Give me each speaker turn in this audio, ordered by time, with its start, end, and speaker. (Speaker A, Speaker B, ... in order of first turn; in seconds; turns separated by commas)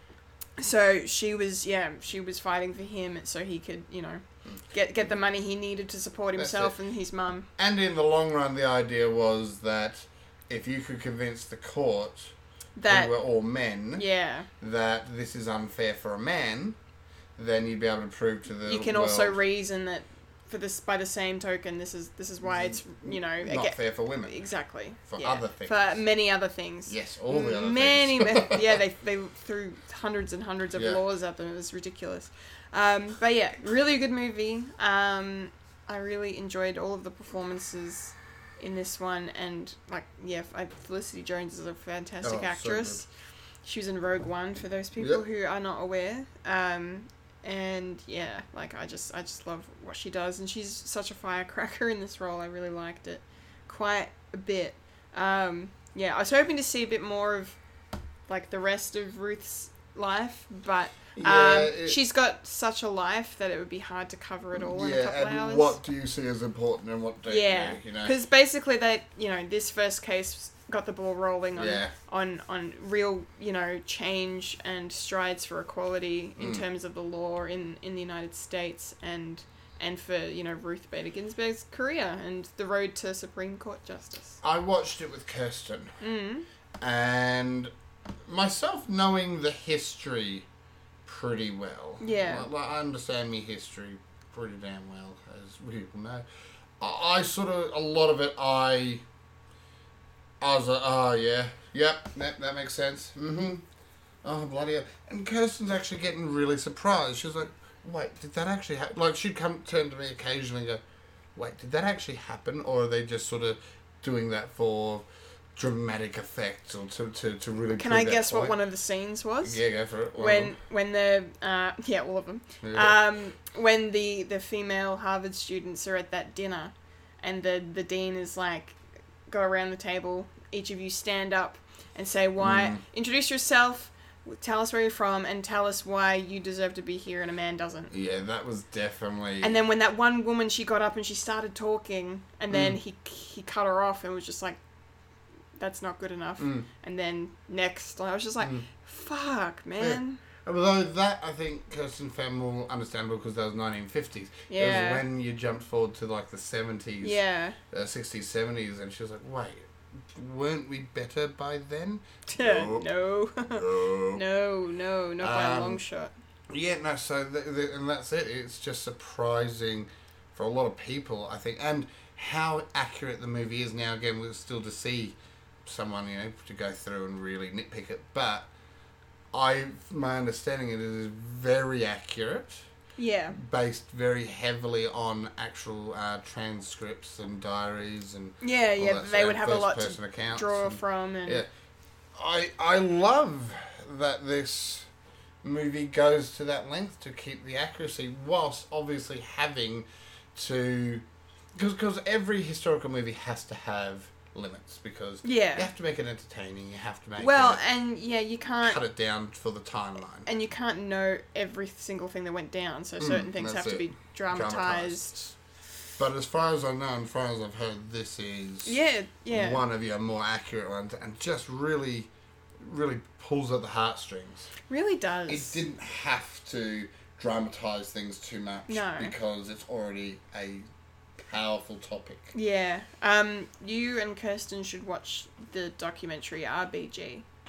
Speaker A: 0.6-7.5, Speaker B: 6.4-6.8, Speaker B: 7.6-12.3, Speaker A: 12.8-13.1, Speaker B: 12.9-14.1, Speaker A: 14.0-14.5, Speaker B: 14.6-16.8, Speaker B: 17.4-19.4, Speaker A: 18.7-43.1, Speaker B: 22.4-24.4, Speaker B: 25.1-26.0, Speaker B: 26.9-28.6, Speaker B: 42.2-43.0, Speaker A: 43.6-57.6, Speaker B: 45.0-45.2, Speaker A: 58.3-65.8, Speaker B: 61.2-62.0, Speaker B: 64.5-68.2, Speaker A: 67.3-84.4, Speaker B: 71.5-71.9, Speaker B: 76.4-76.6, Speaker B: 84.4-85.9, Speaker A: 86.0-86.5, Speaker B: 86.8-87.7, Speaker B: 88.3-90.5, Speaker B: 91.1-96.2, Speaker A: 92.0-92.5, Speaker B: 96.8-99.0, Speaker B: 100.4-103.6, Speaker B: 104.2-110.8, Speaker B: 111.4-115.0, Speaker B: 115.6-118.6, Speaker A: 117.7-119.6, Speaker B: 119.4-120.6, Speaker A: 120.2-128.8, Speaker B: 122.6-123.0, Speaker A: 129.3-137.9, Speaker B: 132.4-132.8, Speaker B: 137.9-139.6, Speaker A: 139.4-144.6, Speaker B: 142.5-142.8, Speaker A: 145.6-150.2, Speaker B: 146.4-146.7, Speaker B: 148.4-148.7, Speaker B: 149.8-157.2, Speaker A: 154.5-155.1, Speaker A: 157.0-157.6, Speaker B: 157.7-162.9, Speaker A: 162.3-166.1, Speaker B: 163.5-164.2, Speaker B: 165.2-165.8, Speaker B: 166.5-178.5, Speaker B: 179.3-182.6, Speaker A: 183.0-183.4, Speaker B: 183.3-191.5, Speaker A: 188.4-191.4, Speaker B: 192.2-194.9, Speaker B: 195.4-201.1, Speaker B: 201.6-207.6, Speaker A: 205.2-205.7, Speaker A: 207.2-208.8, Speaker B: 208.6-210.3, Speaker A: 210.3-215.1, Speaker B: 213.0-215.3, Speaker B: 216.0-218.8, Speaker A: 218.7-219.6, Speaker B: 219.3-224.5, Speaker A: 224.7-225.6, Speaker B: 225.3-230.7, Speaker A: 228.7-229.1, Speaker B: 231.2-232.3, Speaker A: 232.3-237.2